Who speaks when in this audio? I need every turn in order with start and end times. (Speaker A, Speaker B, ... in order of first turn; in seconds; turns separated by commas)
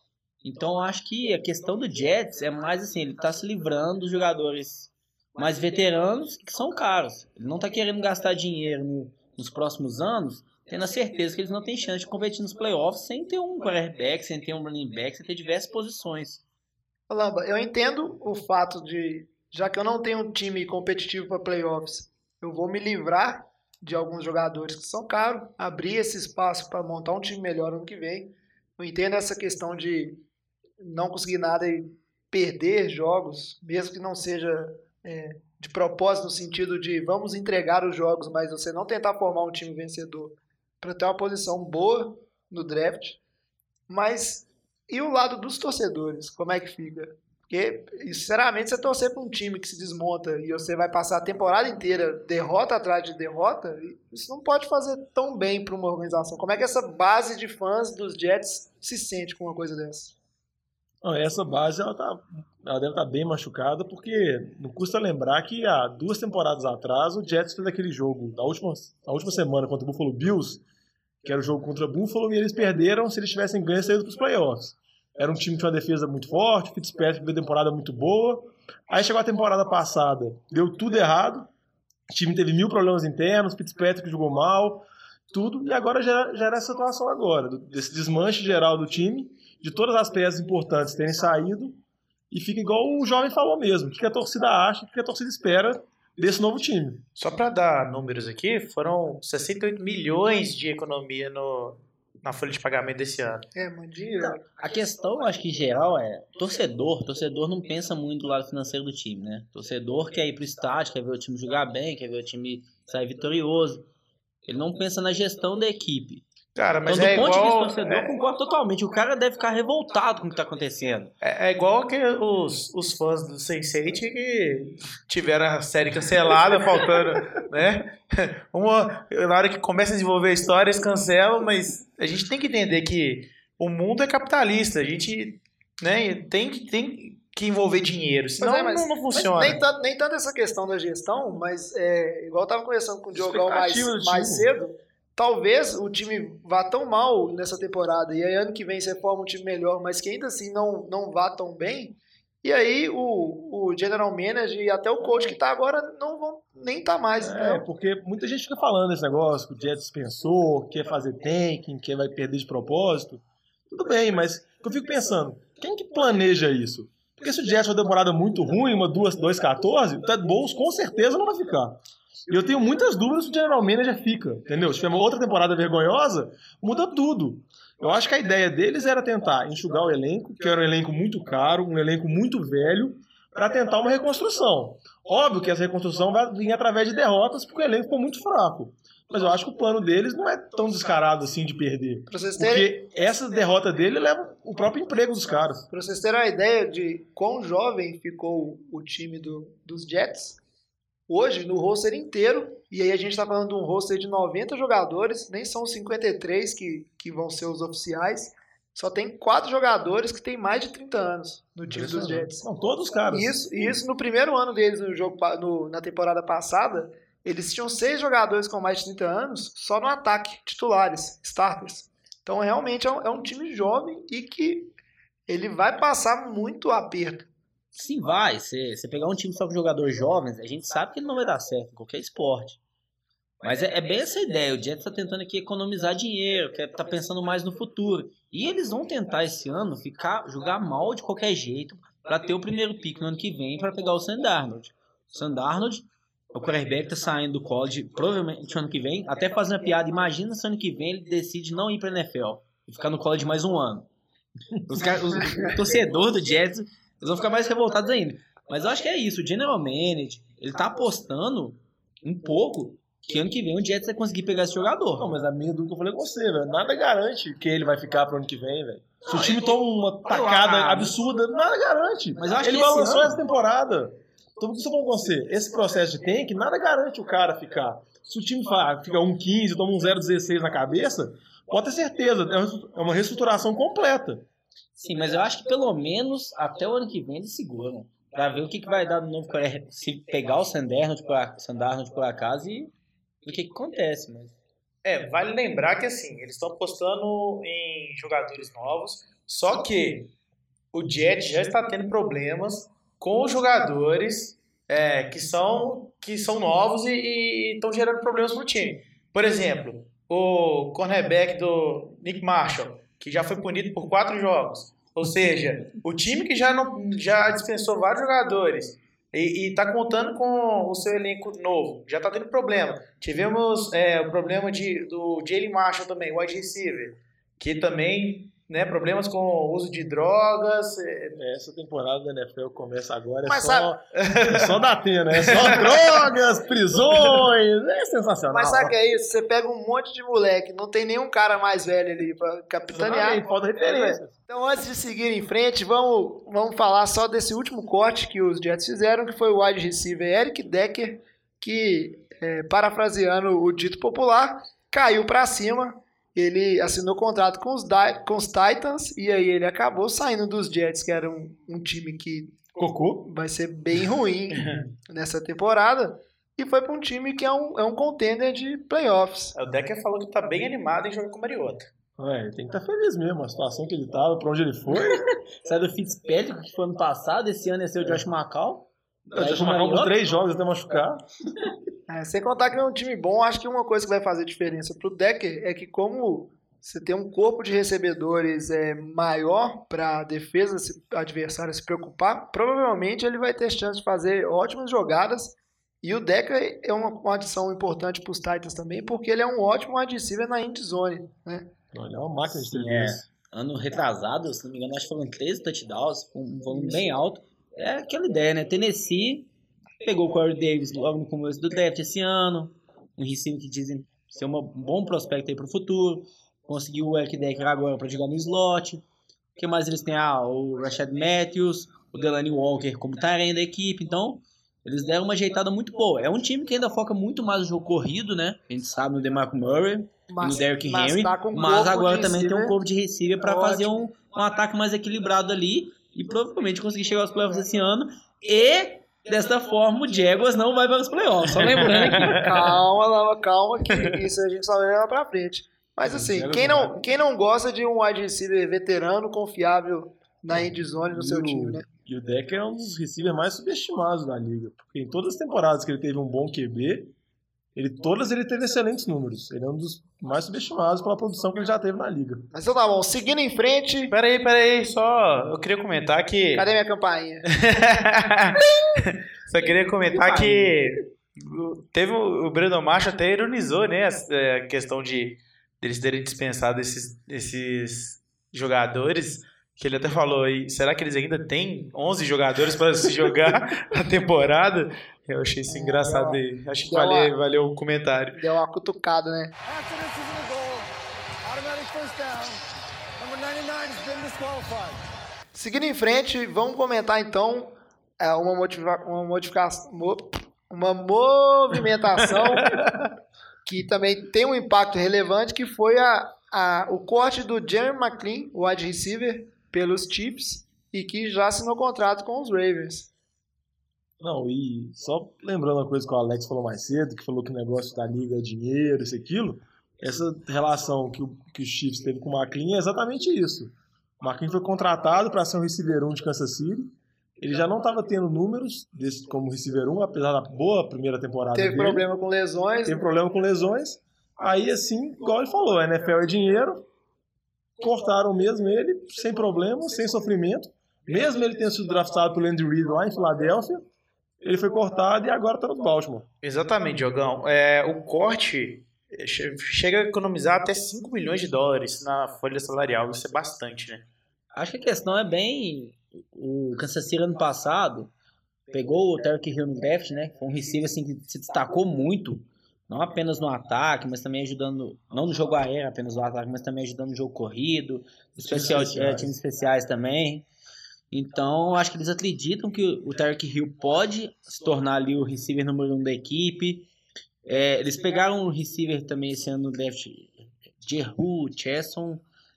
Speaker A: 0.4-16.4, Speaker B: 17.1-30.2, Speaker B: 30.8-43.2, Speaker B: 43.9-60.1, Speaker C: 61.0-70.6, Speaker C: 71.2-81.5, Speaker C: 82.1-97.0, Speaker D: 97.2-103.5, Speaker B: 103.5-104.4, Speaker A: 104.2-113.9, Speaker A: 114.5-116.2, Speaker D: 116.5-118.1, Speaker A: 116.8-121.1, Speaker D: 121.2-139.6, Speaker B: 138.4-157.6, Speaker C: 143.1-144.5, Speaker C: 157.2-195.7, Speaker B: 192.1-192.8, Speaker B: 195.7-200.4, Speaker B: 201.1-212.4, Speaker C: 211.7-213.7, Speaker B: 213.1-224.7, Speaker B: 225.3-227.3, Speaker A: 227.7-232.6, Speaker A: 233.4-253.9, Speaker A: 254.7-265.1, Speaker B: 255.2-255.5, Speaker C: 264.9-284.2, Speaker A: 269.1-269.5, Speaker A: 270.1-271.0, Speaker A: 272.2-273.2, Speaker A: 284.8-292.7, Speaker A: 293.2-294.4, Speaker D: 294.8-300.1, Speaker D: 300.7-331.2, Speaker C: 331.1-338.7, Speaker B: 333.2-333.7, Speaker D: 334.0-334.6, Speaker D: 335.1-336.1, Speaker B: 338.3-362.4, Speaker C: 342.7-344.1, Speaker C: 362.6-363.1, Speaker B: 363.0-369.3, Speaker D: 369.4-371.7, Speaker C: 372.0-375.0, Speaker A: 374.7-379.9, Speaker C: 379.1-381.0, Speaker B: 381.9-401.5, Speaker C: 401.7-403.0, Speaker A: 402.5-409.3, Speaker B: 406.5-406.8, Speaker A: 409.8-418.8, Speaker A: 419.4-442.2, Speaker B: 430.1-432.6, Speaker B: 433.2-433.9, Speaker D: 441.4-442.5, Speaker B: 442.2-451.6, Speaker C: 445.8-446.8, Speaker C: 450.3-456.9, Speaker C: 457.5-462.3, Speaker B: 462.3-463.9, Speaker D: 463.9-466.4, Speaker B: 466.3-467.2, Speaker D: 467.3-488.2, Speaker B: 485.5-487.1, Speaker B: 488.2-489.3, Speaker E: 489.4-490.7, Speaker E: 491.2-492.4, Speaker E: 493.0-494.8, Speaker B: 495.3-502.5, Speaker D: 502.2-502.9, Speaker B: 503.4-512.9, Speaker C: 514.0-531.8, Speaker B: 531.3-532.8, Speaker C: 532.6-536.6, Speaker C: 537.6-543.7, Speaker C: 544.2-546.0, Speaker D: 546.2-553.9, Speaker A: 554.3-557.9, Speaker A: 558.5-570.2, Speaker C: 568.2-569.1, Speaker A: 570.9-576.7, Speaker A: 577.2-582.0